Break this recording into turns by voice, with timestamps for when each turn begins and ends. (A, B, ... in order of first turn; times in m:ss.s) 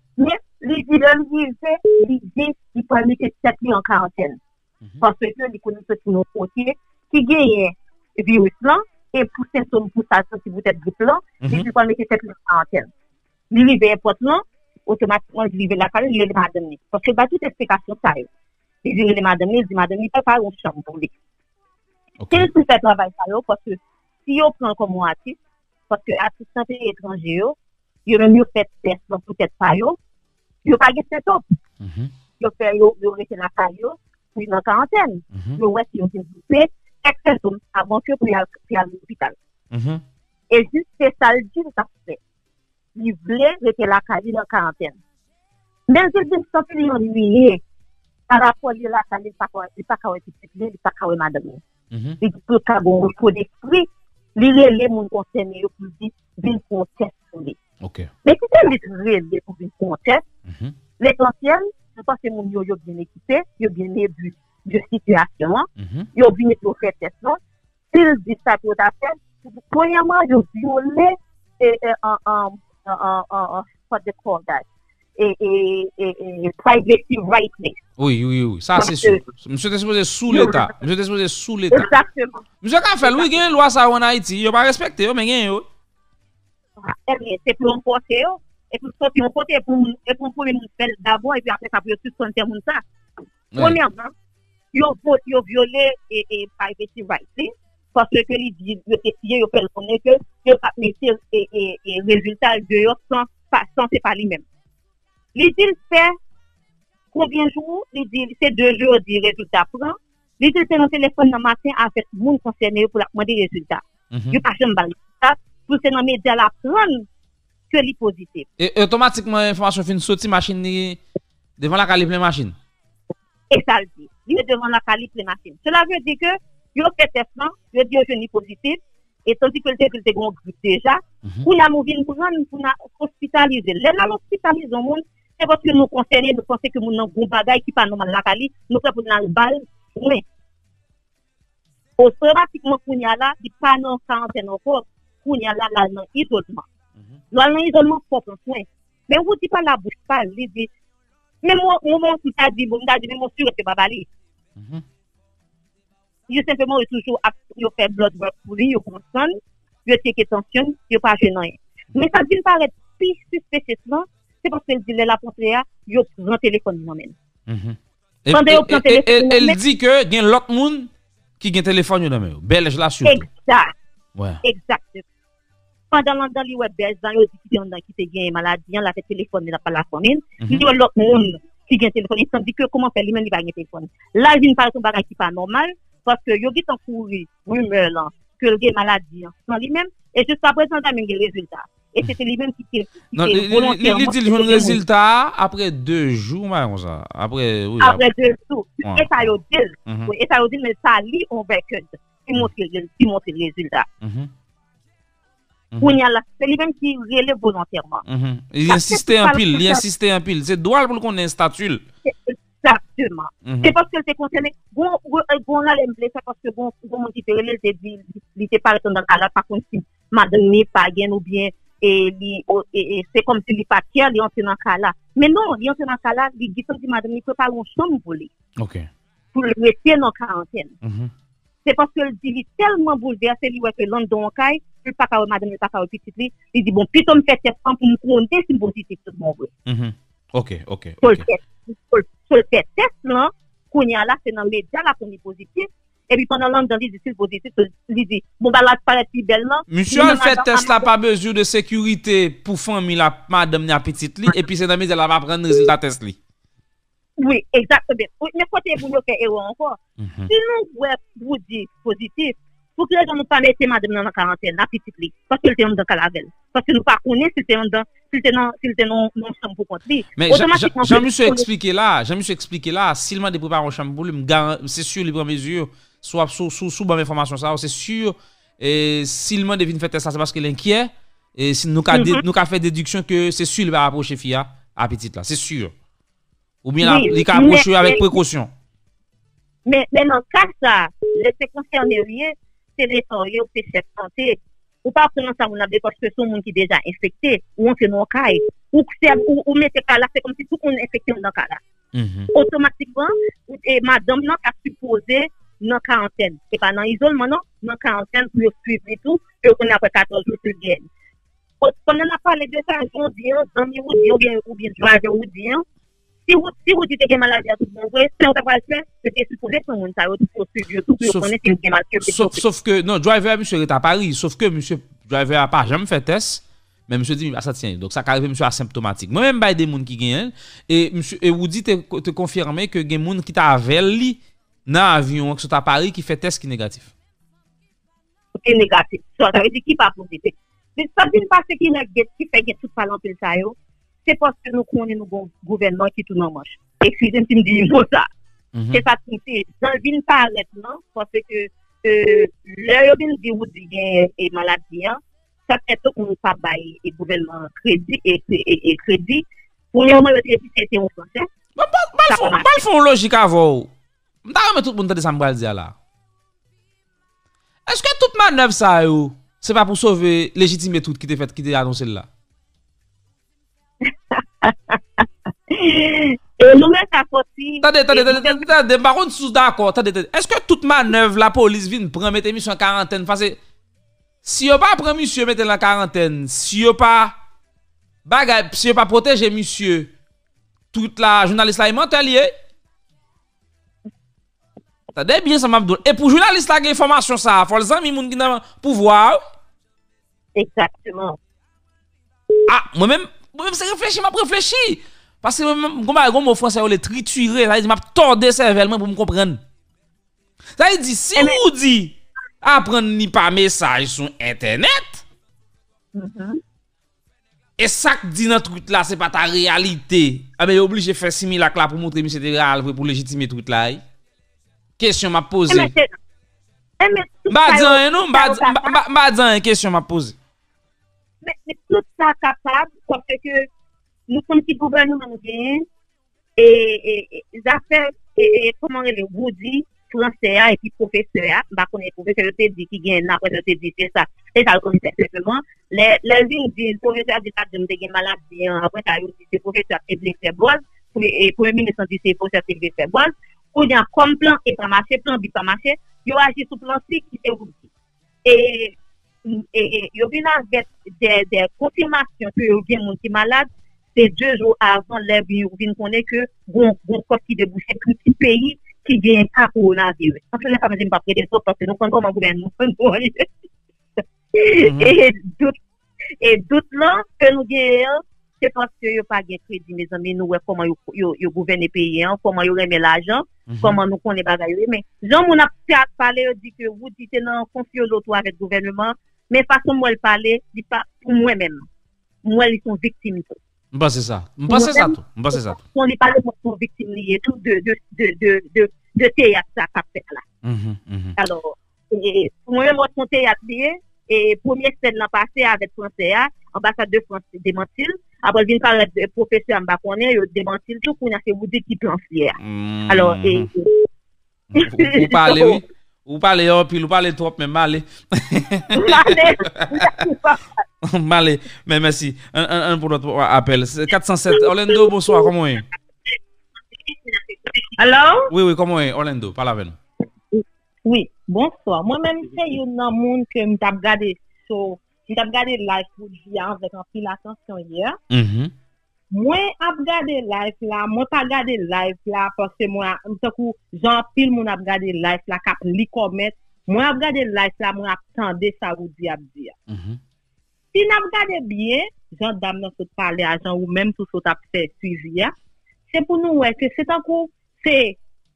0:00.2-0:04.4 A
0:05.0-0:12.9 A
0:11.4-0:11.7 B
0:13.5-0:18.3 A
0:18.8-0:21.1 A
0:22.2-0:22.5 B
0:22.3-0:25.4 A
0:25.9-0:30.0 A
0:30.6-0:31.4 A
0:31.8-0:32.1 B
0:32.4-0:39.4 A
0:35.3-0:35.6 B
0:39.7-0:40.0 B
0:40.5-0:42.2 A
0:43.0-0:45.0 A
0:45.9-0:47.6 A
0:48.3-0:51.6 A
0:51.9-0:52.2 B
0:52.2-0:57.6 A
0:57.8-0:58.1 B
0:58.2-1:00.2 A
1:00.5-1:00.7 B
1:01.0-1:07.4 A
1:05.8-1:06.1 B
1:07.9-1:14.6 A
1:15.2-1:17.8 A
1:18.0-1:21.9 B
1:18.8-1:19.2 A
1:20.3-1:20.6 A
1:21.7-1:22.4 A
1:22.6-1:25.6 B
1:26.8-1:32.8 A
1:33.6-1:34.1 A
1:34.7-1:44.4 A
1:45.3-1:46.1 A
1:47.1-1:57.1 A
1:54.1-1:54.4 B
1:57.7-1:58.5 A
1:58.6-2:01.0 B
2:01.6-2:02.5 B
2:03.5-2:20.2 A
2:22.0-2:26.6 A
2:27.3-2:30.7 A
2:31.4-2:34.1 A
2:34.6-2:34.8 B
2:36.3-2:47.1 A
2:47.5-2:50.9 B
2:48.3-2:49.6 A
2:51.4-2:53.2 B
2:53.0-2:53.7 A
2:54.1-2:54.4 B
2:54.4-2:55.0 A
2:55.9-3:14.8 A
3:13.1-3:18.0 B
3:17.8-3:23.9 A
3:18.8-3:19.3 B
3:24.0-3:24.3 B
3:25.8-3:28.0 A
3:28.1-3:31.8 B
3:28.7-3:29.8 A
3:32.0-3:48.3 A
3:33.4-3:33.7 B
3:48.6-3:48.9 B
3:49.3-3:50.7 A
3:50.8-3:51.1 B
3:51.6-3:59.5 A
3:59.7-4:01.2 B
4:01.0-4:10.8 A
4:09.7-4:16.2 B
4:17.2-4:31.4 A
4:20.0-4:20.3 B
4:30.2-4:45.7 B
4:41.9-4:42.2 A
4:46.6-4:48.5 B
4:46.8-4:48.0 A
4:49.6-5:01.6 A
5:01.9-5:02.3 B
5:02.3-5:10.9 A
5:11.6-5:15.6 A
5:16.3-5:22.4 A
5:21.0-5:21.3 B
5:22.0-5:36.9 B
5:38.3-5:48.1 A
5:48.5-5:48.8 B
5:48.7-6:01.3 A
6:01.6-6:03.7 B
6:02.1-6:02.4 A
6:04.2-6:05.7 B
6:07.7-6:12.1 B
6:13.9-6:18.5 A
6:17.6-6:23.4 B
6:24.2-6:27.2 B
6:28.0-6:29.9 B
6:30.7-6:32.3 B
6:34.9-6:39.2 B
6:40.3-6:41.2 A
6:42.5-6:49.4 B
6:50.6-6:55.0 B
6:55.9-6:56.4 A
6:57.6-7:03.8 B
7:04.8-7:05.7 B
7:05.5-7:06.0 A
7:06.8-7:08.8 A
7:07.3-7:10.2 B
7:11.2-7:13.5 A
7:14.1-7:15.6 A
7:16.4-7:37.6 A
7:38.2-7:53.2 A
7:54.3-7:55.5 A
7:54.6-7:54.9 B
7:56.2-8:11.6 A
8:03.5-8:03.8 B
8:12.2-8:13.4 A
8:13.7-8:15.6 B
8:14.5-8:20.2 A
8:20.4-8:21.1 B
8:21.2-8:32.4 A
8:32.4-8:33.5 B
8:32.9-8:33.7 A
8:34.5-8:39.9 B
8:34.5-8:35.6 A
8:38.7-8:40.4 A
8:40.8-8:45.6 B
8:46.9-8:47.8 A
8:47.8-8:48.2 C
8:48.3-8:49.8 B
8:50.8-8:58.0 C
8:58.1-8:58.5 B
8:59.1-9:09.6 C
9:09.7-9:10.0 B
9:10.7-9:15.3 C
9:15.9-9:18.0 C